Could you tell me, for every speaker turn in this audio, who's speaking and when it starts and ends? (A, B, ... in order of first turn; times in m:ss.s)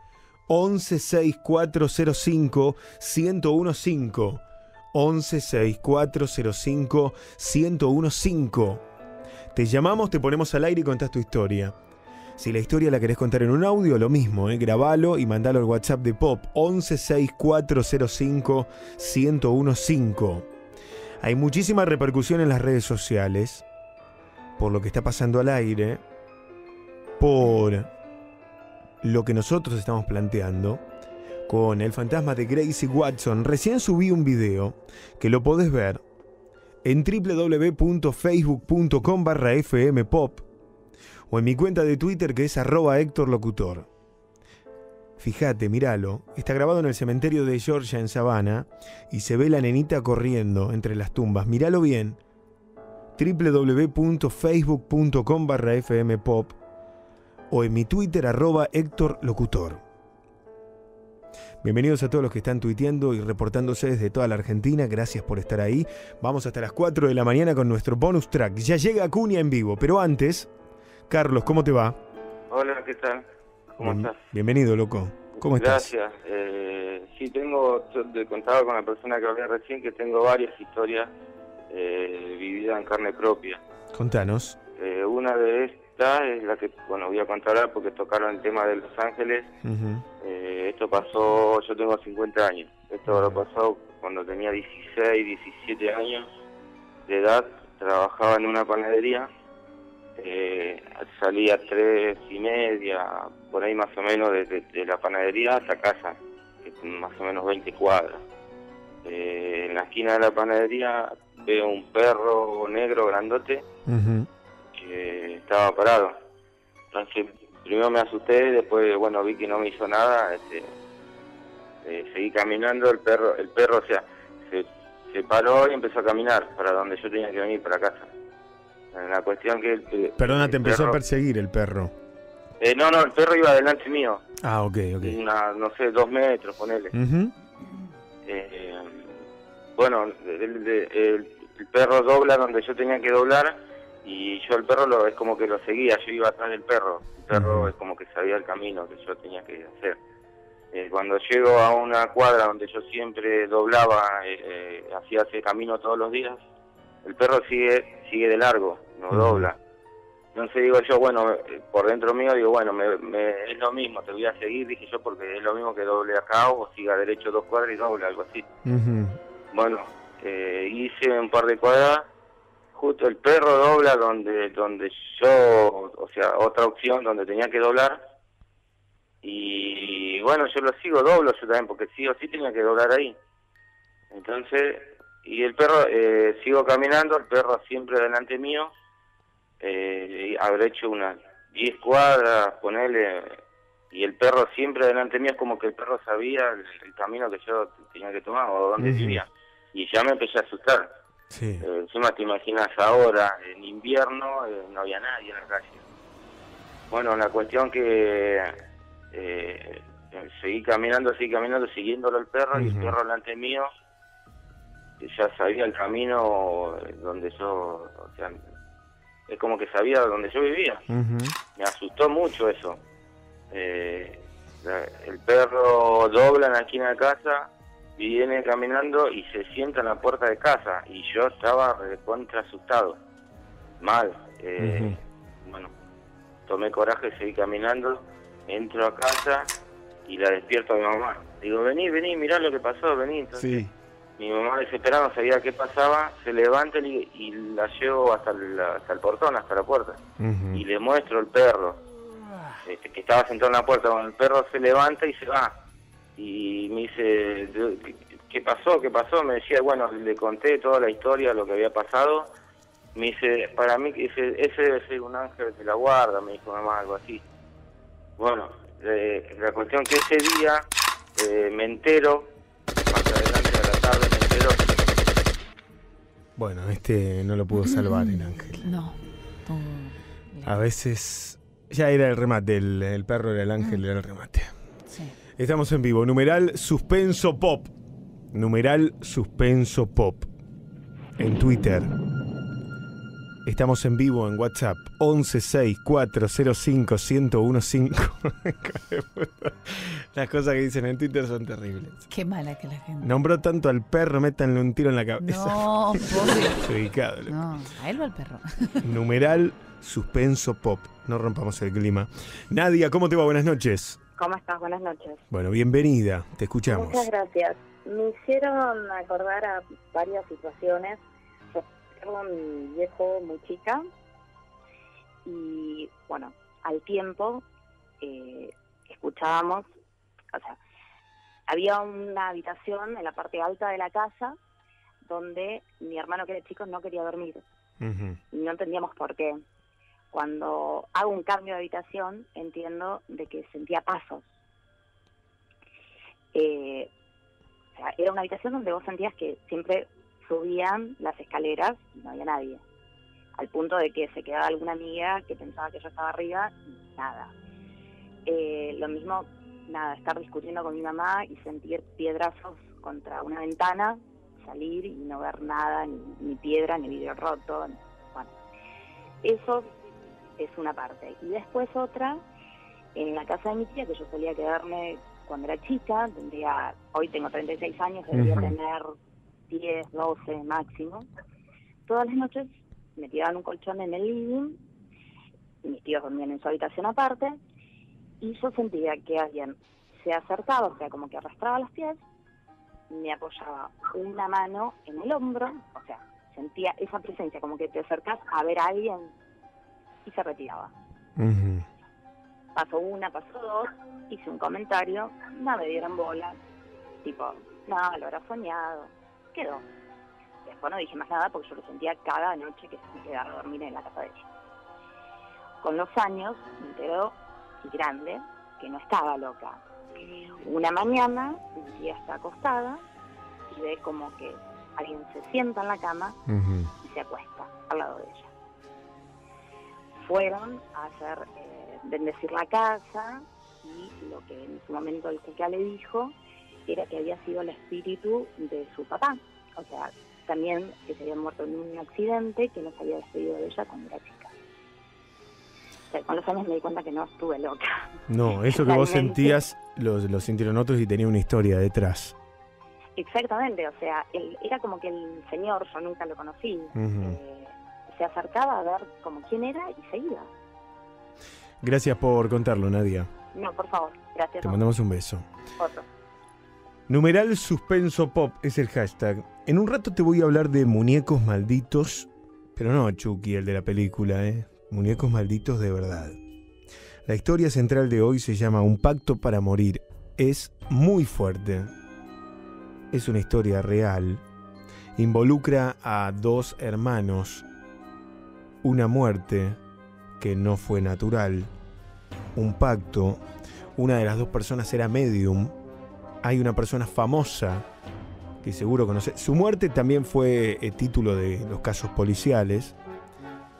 0:00.5-0:08.8 A
0:09.5-0:11.8 A
0:12.4-0:20.5 A
0:21.2-0:23.6 A
0:24.6-0:26.0 A
0:27.2-0:27.9 A
0:29.0-0:30.8 A
0:31.5-0:36.0 A
0:36.8-0:40.4 A
0:41.3-0:43.9 A
0:45.2-0:52.2 A
0:53.2-0:56.6 A
0:57.5-0:59.8 A
1:01.6-1:10.5 A
1:11.1-1:12.0 A
1:12.5-1:13.2 B
1:13.8-1:14.2 B
1:13.8-1:15.9 A
1:15.3-1:21.1 B
1:21.7-1:23.6 B
1:23.9-1:24.6 A
1:24.8-1:29.5 B
1:29.6-1:30.0 A
1:30.2-1:36.3 B
1:33.1-1:33.4 A
1:37.1-1:39.3 B
1:40.2-1:48.2 B
1:49.0-1:53.6 B
1:53.9-1:54.3 A
1:54.8-1:56.2 B
1:56.9-2:00.7 B
2:01.8-2:08.1 B
2:08.9-2:11.0 B
2:10.2-2:11.9 A
2:12.6-2:14.2 B
2:14.4-2:15.2 A
2:15.0-2:16.9 B
2:16.9-2:17.3 A
2:18.3-2:19.2 B
2:19.8-2:30.0 B
2:27.3-2:27.7 A
2:30.7-2:36.4 B
2:37.0-2:39.6 B
2:39.1-2:39.5 A
2:40.4-2:48.5 B
2:48.6-2:49.2 A
2:49.5-2:52.1 B
2:52.8-2:58.0 B
2:59.2-3:03.2 B
3:04.1-3:08.7 B
3:09.6-3:13.4 B
3:13.9-3:20.9 B
3:18.8-3:19.2 A
3:21.3-3:21.6 A
3:21.6-3:25.8 B
3:26.9-3:28.6 B
3:29.1-3:33.7 B
3:32.6-3:33.0 A
3:35.0-3:38.4 B
3:39.3-3:40.8 B
3:40.9-3:41.4 A
3:41.6-3:42.8 B
3:43.5-3:53.0 B
3:53.8-3:55.7 B
3:54.6-3:55.0 A
3:56.5-3:59.5 B
4:00.1-4:03.6 B
4:03.4-4:03.7 A
4:04.2-4:10.0 B
4:10.2-4:10.6 A
4:10.5-4:11.8 B
4:12.6-4:15.5 B
4:16.2-4:22.3 B
4:23.0-4:27.2 B
4:28.2-4:30.6 B
4:31.2-4:32.3 B
4:32.9-4:34.8 B
4:36.4-4:38.7 A
4:37.6-4:40.6 C
4:40.4-4:44.5 A
4:44.9-4:45.2 C
4:45.4-4:47.7 A
4:48.3-4:50.3 A
4:51.2-4:51.9 A
4:53.4-5:02.0 A
5:02.1-5:03.1 C
5:03.0-5:07.4 A
5:05.2-5:06.6 C
5:07.3-5:08.8 C
5:08.8-5:14.0 A
5:14.2-5:15.2 D
5:15.3-5:17.1 A
5:16.7-5:21.0 D
5:21.5-5:23.8 D
5:25.2-5:27.4 D
5:28.0-5:29.7 D
5:31.5-5:34.4 D
5:35.0-5:37.4 D
5:37.8-5:38.2 A
5:38.3-5:39.4 D
5:40.1-5:44.2 D
5:46.3-5:46.9 D
5:47.8-5:52.6 D
5:53.4-5:57.3 D
5:58.3-6:08.3 D
6:09.2-6:09.7 D
6:10.4-6:12.2 D
6:13.0-6:18.9 D
6:18.2-6:18.5 A
6:19.5-6:21.1 D
6:21.9-6:24.6 D
6:25.6-6:27.4 D
6:28.2-6:32.0 D
6:32.9-6:39.1 D
6:40.1-6:40.7 D
6:41.2-6:41.7 A
6:42.6-6:46.4 D
6:47.0-6:49.6 D
6:50.5-6:54.2 D
6:55.6-6:59.6 D
7:00.4-7:02.8 D
7:03.5-7:06.2 D
7:06.3-7:06.7 A
7:06.8-7:08.3 D
7:10.0-7:16.2 D
7:16.7-7:24.3 D
7:25.9-7:29.4 D
7:28.1-7:32.2 A
7:33.0-7:40.3 D
7:36.8-7:37.2 A
7:41.6-7:43.1 A
7:43.3-7:44.6 D
7:44.4-7:45.3 A
7:45.6-7:45.8 D
7:46.9-7:56.2 A
7:57.0-8:01.7 A
8:02.9-8:04.2 A
8:05.0-8:07.4 A
8:08.6-8:09.6 A
8:10.2-8:11.5 A
8:12.4-8:13.2 A
8:13.8-8:15.5 A
8:16.2-8:17.7 A
8:18.4-8:22.7 A